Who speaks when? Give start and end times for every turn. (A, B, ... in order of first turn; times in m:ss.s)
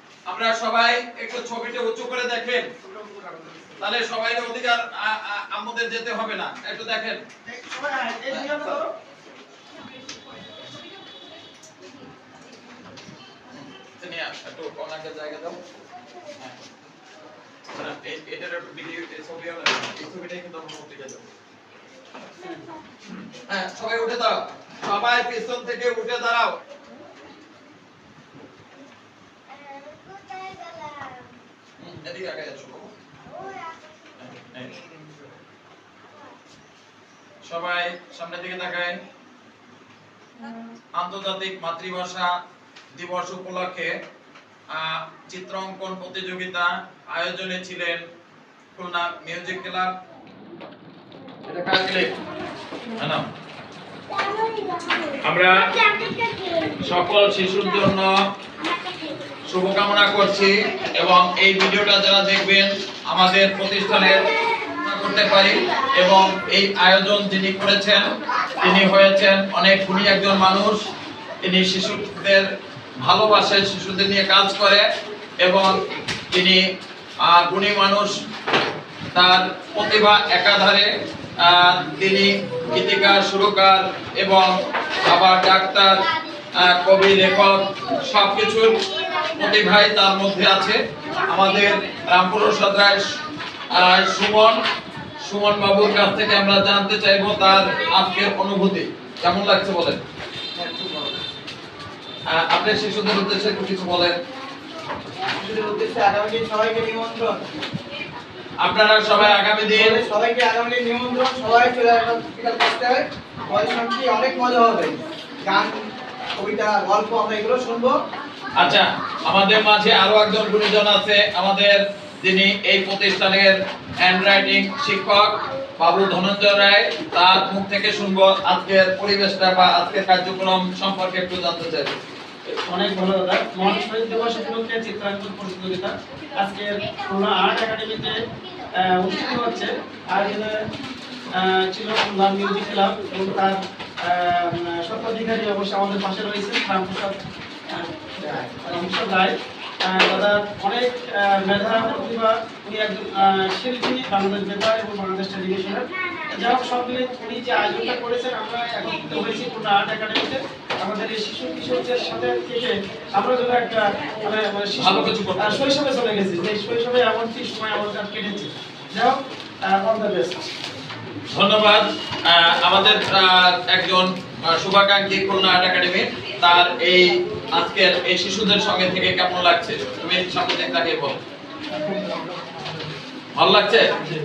0:00.3-0:02.6 A
0:03.8-0:07.2 A
0:07.5-0:08.8 B
0:08.3-0:08.8 A
0:13.5-0:15.6 A
0:16.4-0:16.7 A
0:17.7-0:21.3 A
0:23.1-0:26.6 A
0:31.8-0:32.9 A
0:34.2-0:34.8 A
0:37.4-0:39.0 A
0:41.0-0:42.3 A
0:42.9-0:43.9 A
0:44.7-0:48.0 A
0:48.8-0:49.9 A
0:51.5-0:52.2 A
0:52.9-0:53.2 A
0:55.1-0:55.6 A
0:56.7-0:58.1 A
0:59.5-1:08.0 A
1:08.6-1:10.8 A
1:11.4-1:12.5 A
1:13.0-1:14.8 A
1:15.4-1:15.8 A
1:16.3-1:16.6 A
1:17.3-1:18.1 A
1:19.1-1:20.9 A
1:21.4-1:24.6 A
1:25.1-1:26.0 A
1:26.6-1:33.0 A
1:33.7-1:34.6 A
1:35.2-1:40.0 A
1:40.6-1:41.1 B
1:42.3-1:44.2 A
1:45.4-1:47.4 B
1:48.6-1:50.0 A
1:49.2-1:55.8 B
1:56.4-1:58.0 B
1:58.6-2:11.9 A
2:12.6-2:18.2 C
2:18.9-2:20.5 C
2:21.4-2:23.6 C
2:24.1-2:27.2 C
2:27.7-2:29.4 C
2:29.9-2:50.5 C
2:44.7-2:45.7 A
2:51.3-3:01.2 A
3:03.4-3:03.9 A